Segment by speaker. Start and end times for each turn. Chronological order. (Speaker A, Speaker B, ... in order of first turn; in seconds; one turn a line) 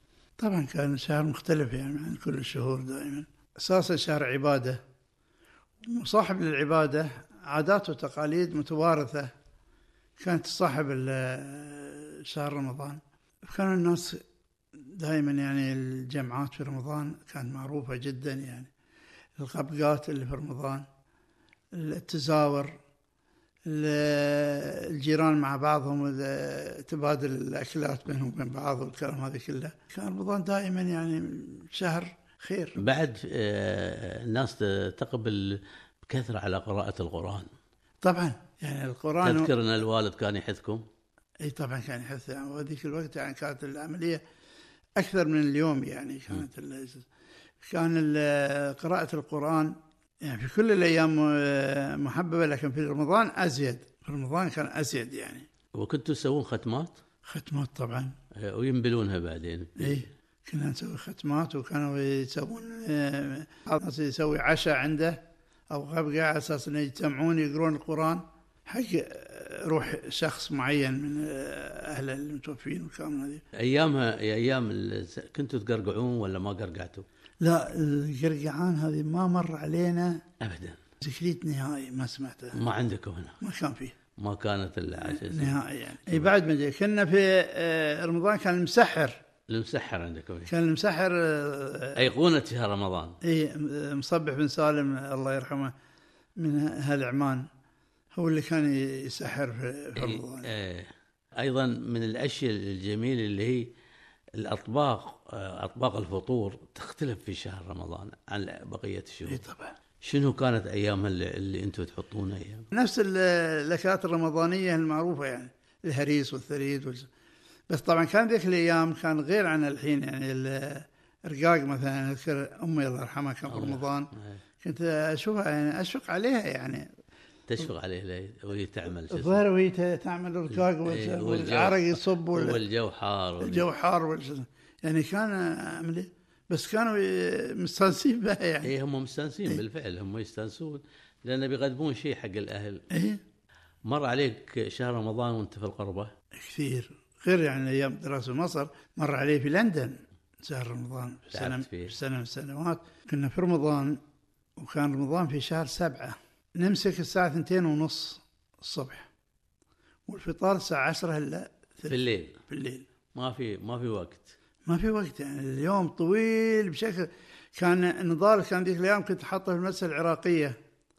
Speaker A: 0.4-4.8
Speaker A: 5.8-9.3
Speaker A: 10.2-14.2
Speaker A: 14.8-18.7
Speaker A: 19.4-20.9
Speaker A: 21.7-22.8
Speaker A: 23.6-32.8
Speaker B: 32.8-37.5
Speaker A: 38.0-39.5
Speaker B: 39.2-40.8
Speaker A: 41.4-44.2
Speaker A: 45.0-47.1
Speaker A: 47.6-55.5
Speaker B: 55.7-57.0
Speaker A: 57.2-58.1
Speaker B: 58.3-60.1
Speaker A: 59.8-65.2
Speaker A: 65.7-73.4
Speaker B: 73.5-77.1
Speaker A: 77.4-80.2
Speaker B: 80.4-80.8
Speaker A: 81.0-82.6
Speaker B: 82.5-83.4
Speaker A: 83.4-84.0
Speaker B: 84.2-86.3
Speaker A: 85.0-89.2
Speaker B: 89.5-90.5
Speaker A: 90.5-92.1
Speaker B: 92.0-93.2
Speaker A: 93.2-95.7
Speaker A: 96.4-97.5
Speaker A: 98.1-100.5
Speaker B: 100.0-103.7
Speaker B: 104.3-109.4
Speaker A: 109.3-109.8
Speaker B: 110.0-112.7
Speaker A: 112.7-117.1
Speaker A: 117.7-126.9
Speaker B: 123.5-124.4
Speaker B: 127.5-129.4
Speaker A: 129.1-132.6
Speaker B: 130.5-133.7
Speaker A: 133.4-138.7
Speaker B: 138.6-142.8
Speaker A: 142.9-143.2
Speaker B: 143.8-146.1
Speaker A: 146.4-154.0
Speaker B: 151.3-151.9
Speaker A: 154.6-159.1
Speaker A: 160.1-162.9
Speaker B: 161.9-162.4
Speaker B: 163.1-164.4
Speaker A: 164.6-170.6